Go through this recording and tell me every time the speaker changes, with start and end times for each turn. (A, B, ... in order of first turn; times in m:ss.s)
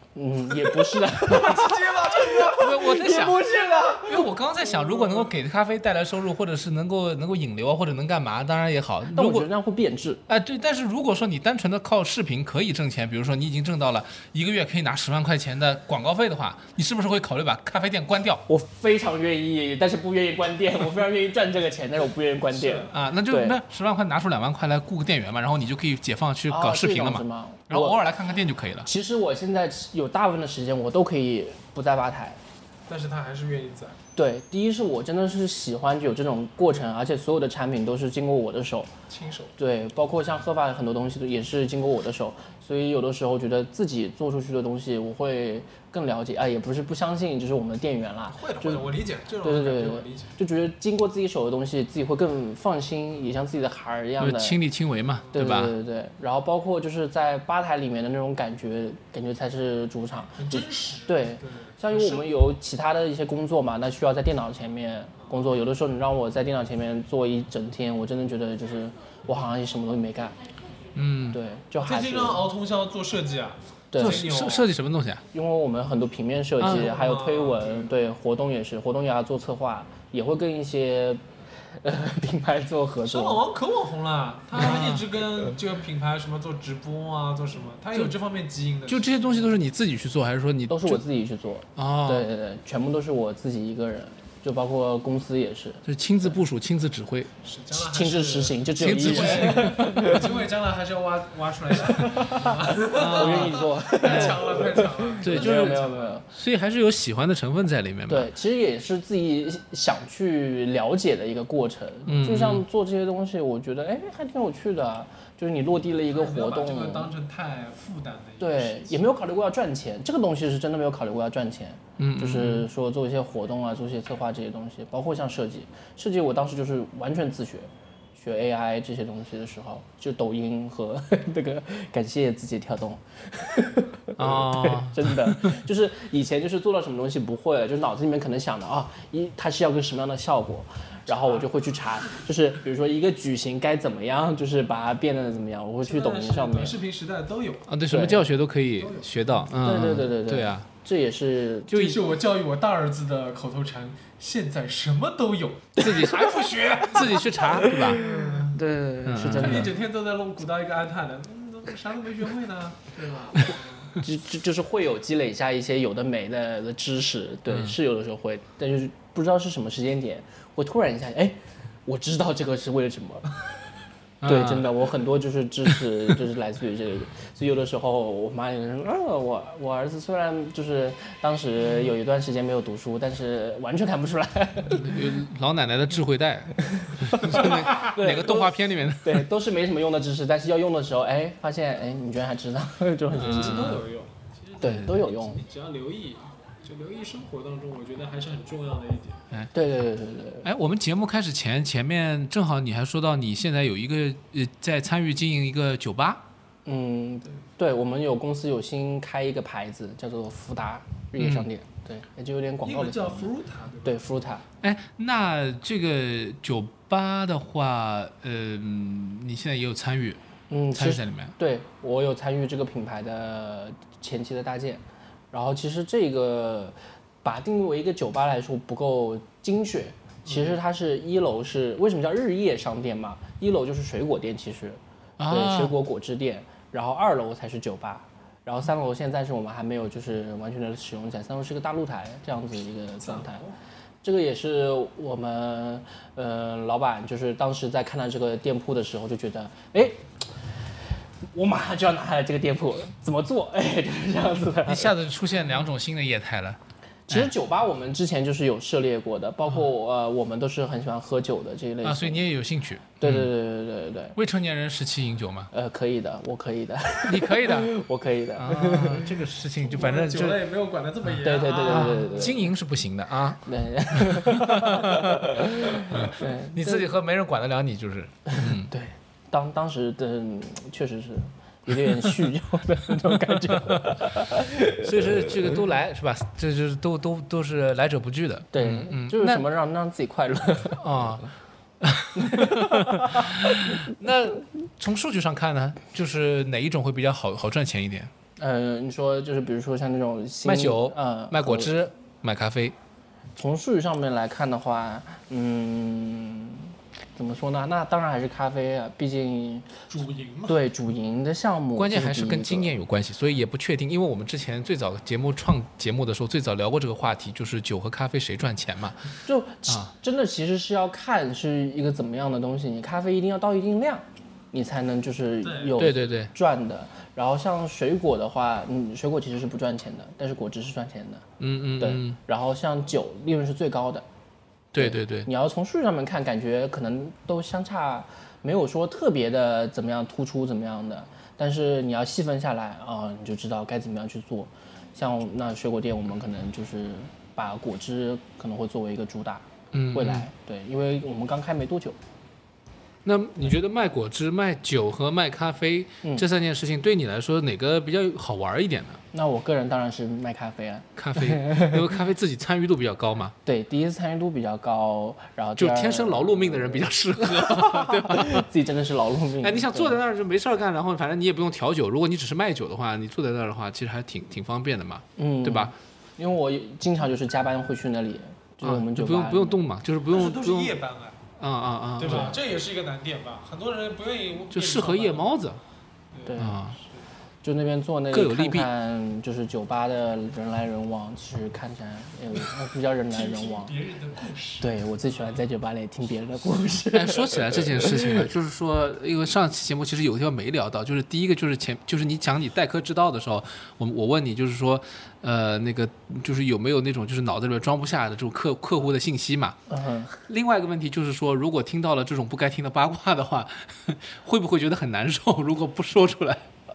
0:00.2-0:04.2 A
0:00.6-0:05.3 B
0:02.6-0:03.5 C
0:04.0-0:09.5 C
0:09.1-0:10.2 A
0:10.3-0:18.4 C
0:18.5-0:23.6 A
0:22.5-0:23.0 B
0:22.9-0:28.9 C
0:26.5-0:28.0 A
0:28.8-0:32.4 A
0:32.9-0:34.0 B
0:34.2-0:38.9 A
0:39.1-0:39.5 B
0:39.6-0:54.6 A
0:48.3-0:50.3 B
0:54.2-0:55.7 C
0:55.4-1:10.4 A
1:00.4-1:02.3 B
1:11.0-1:11.4 C
1:11.3-1:12.5 A
1:11.8-1:14.7 B
1:13.9-1:14.3 A
1:14.0-1:15.2 C
1:15.3-1:21.2 A
1:16.6-1:16.9 C
1:16.6-1:17.9 B
1:21.8-1:23.4 A
1:23.1-1:29.4 B
1:24.6-1:25.0 C
1:28.9-1:31.0 C
1:30.7-1:36.4 A
1:31.8-1:32.3 C
1:35.9-1:37.3 C
1:37.4-1:46.2 B
1:37.7-1:40.3 A
1:38.8-1:40.2 C
1:41.8-1:46.3 A
1:43.0-1:44.5 C
1:45.2-1:48.3 C
1:48.1-1:57.1 A
1:52.1-1:52.6 C
1:56.1-1:59.1 B
1:58.4-2:26.8 A
2:02.0-2:02.7 C
2:14.2-2:15.6 C
2:21.2-2:21.5 B
2:25.8-2:27.7 B
2:27.7-2:30.7 C
2:27.9-2:28.2 A
2:28.8-2:29.4 B
2:29.6-2:32.0 A
2:31.7-2:38.6 B
2:35.8-2:36.4 A
2:35.8-2:38.0 C
2:37.1-2:39.8 A
2:39.0-2:39.7 C
2:39.4-2:43.9 B
2:43.4-2:53.4 A
2:47.5-2:47.8 C
2:54.2-2:54.7 C
2:54.2-3:05.0 A
3:04.7-3:09.3 C
3:06.7-3:13.8 A
3:13.1-3:13.8 C
3:13.2-3:19.2 B
3:14.6-3:15.4 A
3:19.5-3:20.5 A
3:20.4-3:26.2 C
3:26.7-3:33.3 A
3:31.2-3:31.5 C
3:32.6-3:34.2 B
3:33.8-3:34.4 A
3:34.6-3:40.2 C
3:40.5-4:03.5 A
3:40.7-3:41.4 C
3:50.3-3:50.6 B
3:55.2-3:55.8 C
4:03.0-4:03.5 B
4:04.0-4:10.6 A
4:11.3-4:14.9 A
4:14.6-4:17.3 C
4:17.1-4:22.2 A
4:21.8-4:23.3 C
4:23.0-4:24.2 A
4:24.2-4:25.5 C
4:25.5-4:29.2 A
4:27.1-4:27.7 C
4:28.4-4:30.4 C
4:29.7-4:32.2 B
4:31.2-4:32.6 A
4:31.6-4:38.7 C
4:33.4-4:36.9 A
4:38.3-4:45.4 A
4:41.8-4:42.2 C
4:44.8-4:49.5 C
4:48.5-4:51.2 A
4:50.8-4:51.3 C
4:51.8-4:58.1 C
4:52.2-4:53.9 A
4:58.4-5:01.8 A
5:00.4-5:02.8 C
5:03.4-5:09.7 A
5:09.9-5:10.6 B
5:10.5-5:12.7 A
5:11.8-5:19.9 C
5:19.2-5:31.3 A
5:25.4-5:25.8 B
5:25.8-5:26.3 C
5:31.4-5:32.2 C
5:31.8-5:34.0 A
5:34.7-5:35.3 C
5:34.8-5:52.0 A
5:49.7-5:50.3 C
5:53.0-5:59.0 C
5:59.1-6:01.8 A
6:01.0-6:03.3 C
6:03.4-6:10.0 A
6:05.6-6:08.5 C
6:09.4-6:15.7 C
6:15.2-6:19.6 A
6:18.6-6:20.8 C
6:20.1-6:21.2 B
6:21.4-6:22.4 C
6:22.0-6:25.3 B
6:22.1-6:22.4 A
6:24.5-6:25.6 C
6:26.1-6:27.0 B
6:26.3-6:26.6 A
6:26.4-6:26.8 C
6:27.4-6:33.7 A
6:28.1-6:28.7 C
6:33.1-6:35.4 B
6:34.6-6:38.3 A
6:36.9-6:49.6 C
6:49.7-6:50.2 A
6:50.3-6:56.4 C